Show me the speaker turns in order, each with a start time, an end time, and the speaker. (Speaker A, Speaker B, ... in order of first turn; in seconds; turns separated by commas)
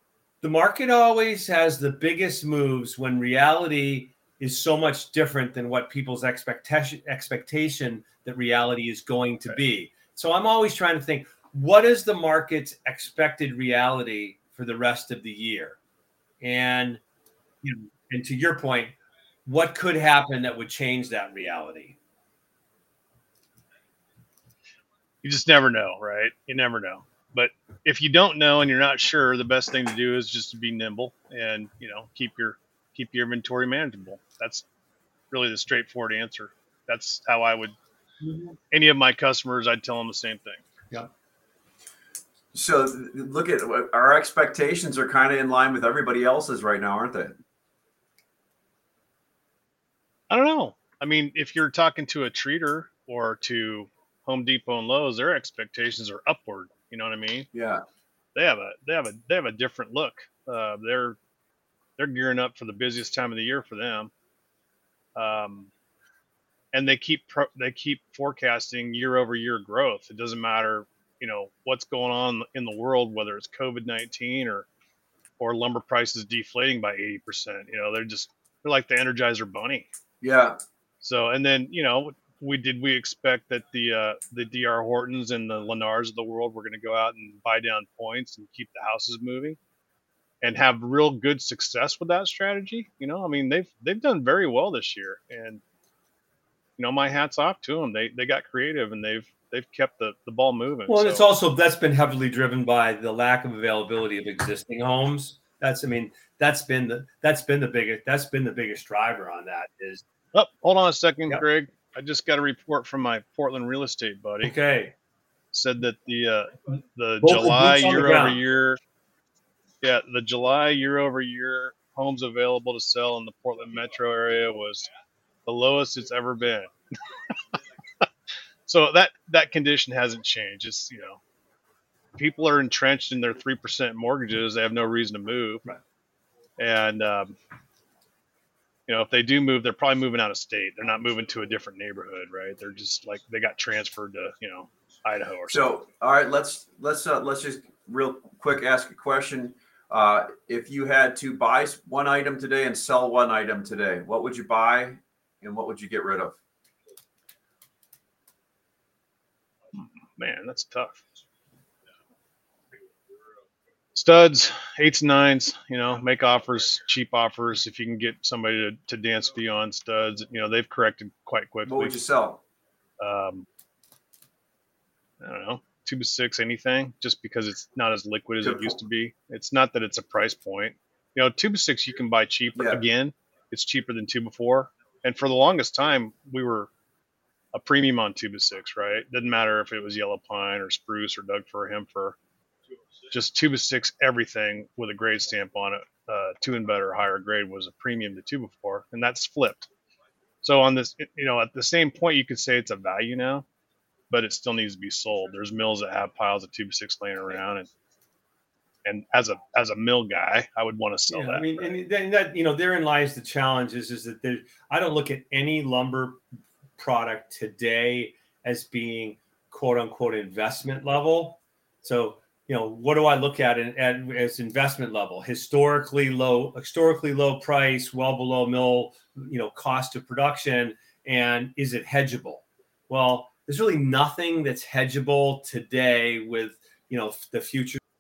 Speaker A: 0.4-15.8, Speaker A: 16.4-17.0, Speaker A: 17.6-18.9, Speaker A: 19.5-22.0, Speaker B: 25.2-34.6, Speaker B: 35.3-37.8, Speaker A: 38.2-38.5, Speaker B: 38.7-40.6, Speaker C: 42.5-47.4, Speaker B: 50.3-57.5, Speaker C: 57.5-57.8, Speaker B: 58.4-61.2, Speaker B: 62.0-64.1, Speaker B: 65.2-65.7, Speaker B: 66.7-74.7, Speaker B: 75.4-79.9, Speaker C: 80.2-80.6, Speaker B: 81.0-89.6, Speaker B: 90.4-95.6, Speaker B: 96.8-101.2, Speaker A: 100.9-110.0, Speaker B: 110.3-114.5, Speaker A: 114.4-114.9, Speaker B: 115.5-118.8, Speaker A: 117.2-118.4, Speaker B: 119.8-124.9, Speaker B: 125.5-126.7, Speaker B: 128.7-131.2, Speaker B: 132.2-135.7, Speaker B: 136.6-137.3, Speaker B: 138.9-145.7, Speaker C: 145.5-156.4, Speaker B: 159.7-161.0, Speaker B: 163.9-171.9, Speaker C: 171.6-172.4, Speaker B: 173.0-173.5, Speaker B: 175.2-186.7, Speaker C: 178.4-178.8, Speaker C: 182.6-182.8, Speaker B: 187.5-192.2, Speaker B: 193.1-199.7, Speaker B: 200.4-203.4, Speaker B: 204.1-207.7, Speaker B: 208.8-211.7, Speaker A: 211.1-216.2, Speaker A: 216.8-237.8